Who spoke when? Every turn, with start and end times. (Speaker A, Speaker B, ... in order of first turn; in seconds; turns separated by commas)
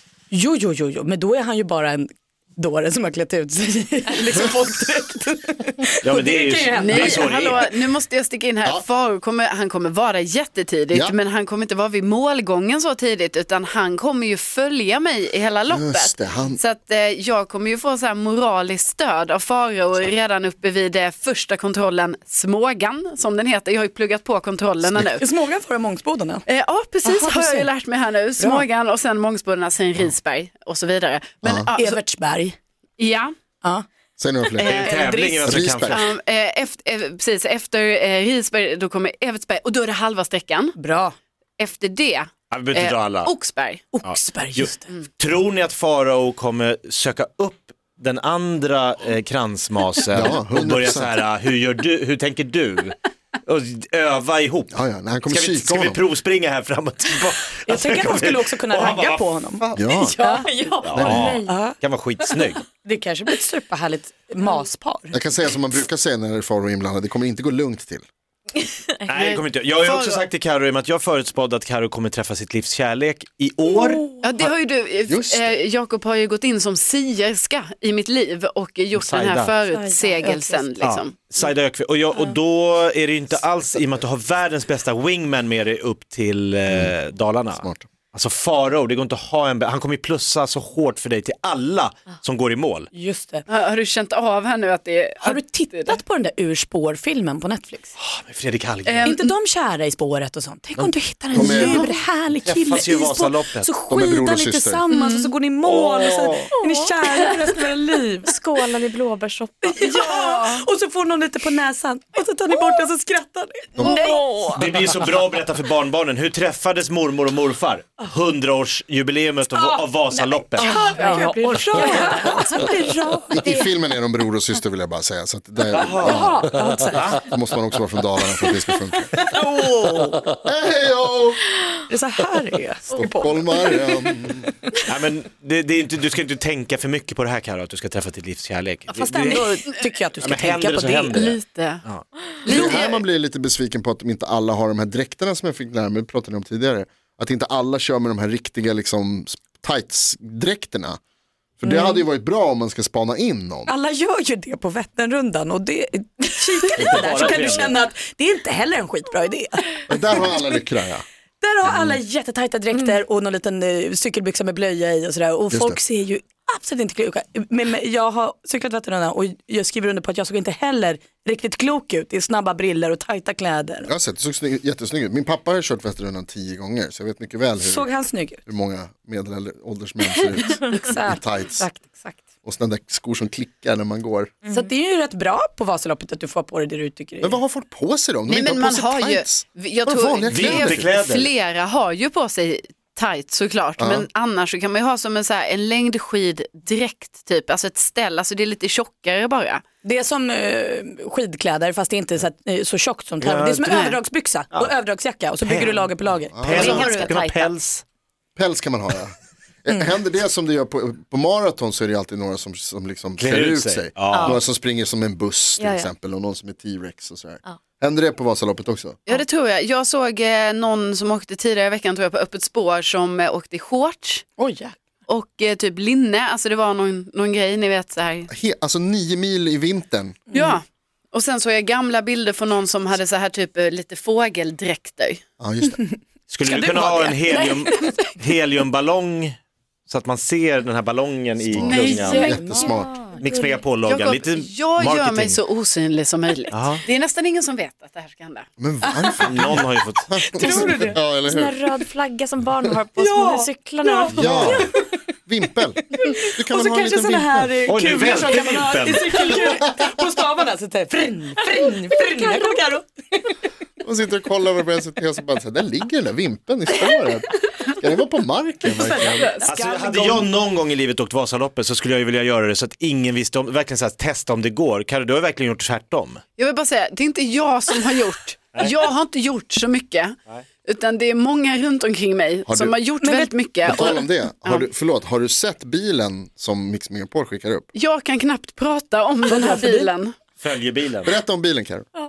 Speaker A: 0.3-7.3, Speaker B: 6.0-7.7, Speaker C: 6.8-25.2, Speaker D: 15.7-16.6, Speaker A: 25.1-26.4, Speaker C: 26.5-32.0, Speaker A: 27.0-27.7, Speaker A: 28.4-28.6, Speaker D: 31.4-31.7, Speaker A: 31.8-32.5, Speaker C: 33.0-33.3, Speaker D: 34.2-36.1, Speaker C: 34.6-40.7, Speaker B: 34.6-36.1, Speaker A: 34.8-35.6, Speaker A: 40.8-41.1, Speaker C: 41.6-43.9, Speaker B: 42.5-43.3, Speaker A: 43.9-44.9, Speaker B: 44.0-60.2, Speaker D: 50.1-51.2, Speaker D: 54.7-56.0, Speaker A: 57.7-59.7, Speaker D: 59.6-60.1, Speaker C: 60.1-60.4, Speaker A: 60.2-60.5, Speaker E: 60.3-61.6, Speaker B: 60.8-62.6, Speaker D: 60.9-61.4, Speaker A: 61.4-61.8, Speaker A: 62.3-65.2, Speaker D: 65.1-68.0, Speaker B: 69.1-74.0, Speaker C: 69.2-70.3, Speaker C: 74.2-81.5, Speaker D: 75.1-75.5, Speaker B: 78.9-79.6, Speaker A: 79.7-80.5, Speaker E: 79.8-80.5, Speaker B: 80.8-92.9, Speaker D: 86.7-86.9, Speaker D: 87.5-87.9, Speaker A: 92.9-93.5, Speaker C: 93.5-96.0, Speaker A: 95.2-97.9, Speaker B: 98.0-99.1, Speaker C: 98.8-99.3, Speaker A: 99.0-108.3, Speaker D: 100.8-101.9, Speaker B: 102.4-103.7, Speaker D: 103.9-104.8, Speaker C: 104.9-105.3, Speaker B: 105.6-106.4, Speaker E: 106.5-107.5, Speaker E: 108.2-110.1, Speaker A: 109.6-114.2, Speaker C: 109.8-110.6, Speaker D: 113.8-114.1, Speaker E: 113.8-114.8, Speaker B: 114.5-120.7, Speaker E: 120.6-122.6, Speaker A: 120.6-123.7, Speaker D: 123.3-126.5, Speaker B: 125.7-126.4, Speaker A: 126.0-127.2, Speaker B: 126.9-127.2, Speaker D: 127.0-129.1, Speaker A: 129.3-130.2, Speaker D: 130.4-131.4, Speaker A: 131.9-134.2, Speaker D: 132.9-134.5, Speaker B: 134.9-139.6, Speaker A: 138.9-141.3, Speaker B: 140.2-141.3, Speaker C: 141.1-141.8, Speaker C: 142.4-143.0, Speaker D: 142.5-151.0, Speaker D: 151.6-153.7, Speaker A: 151.6-152.0, Speaker A: 153.7-160.2, Speaker B: 156.8-157.7, Speaker D: 159.9-161.0, Speaker A: 161.4-173.9, Speaker D: 165.5-165.8, Speaker D: 173.8-177.9, Speaker A: 177.6-178.4, Speaker D: 178.4-181.6, Speaker A: 180.5-182.2, Speaker D: 182.4-184.3, Speaker E: 184.4-184.7, Speaker A: 184.5-187.4, Speaker D: 187.2-190.9, Speaker C: 188.3-199.6, Speaker B: 190.3-191.3, Speaker D: 193.8-194.1, Speaker A: 199.8-207.0, Speaker B: 203.2-204.0, Speaker B: 205.4-207.8, Speaker D: 206.3-206.9, Speaker E: 206.4-207.5, Speaker D: 208.3-219.0, Speaker B: 213.2-214.4, Speaker E: 214.1-214.4, Speaker E: 215.6-215.9, Speaker C: 219.1-224.2, Speaker A: 224.4-224.7, Speaker C: 225.1-228.3, Speaker D: 228.3-230.2, Speaker A: 230.3-230.6, Speaker C: 230.3-235.2, Speaker D: 235.4-235.8, Speaker B: 236.3-242.3, Speaker C: 236.4-237.5, Speaker A: 237.3-237.9, Speaker D: 241.5-243.0, Speaker C: 241.7-242.4, Speaker A: 241.7-243.1, Speaker E: 242.3-243.6, Speaker B: 243.2-245.4, Speaker C: 243.8-248.4, Speaker B: 246.5-246.8, Speaker D: 248.6-251.5, Speaker A: 248.8-249.7, Speaker B: 249.2-250.2, Speaker A: 250.2-251.0, Speaker E: 250.4-254.7, Speaker A: 253.0-254.8, Speaker D: 254.1-254.7, Speaker D: 255.3-257.7, Speaker A: 255.9-262.9, Speaker B: 257.7-259.6, Speaker E: 261.6-262.5, Speaker D: 263.8-269.3, Speaker A: 268.8-269.4, Speaker C: 268.8-270.3, Speaker B: 269.4-276.2, Speaker C: 276.4-280.1, Speaker C: 280.6-284.7, Speaker D: 282.5-282.8, Speaker A: 283.0-283.9, Speaker D: 283.6-287.7, Speaker C: 287.7-290.1, Speaker A: 289.3-289.9, Speaker B: 290.4-291.1, Speaker D: 291.0-291.9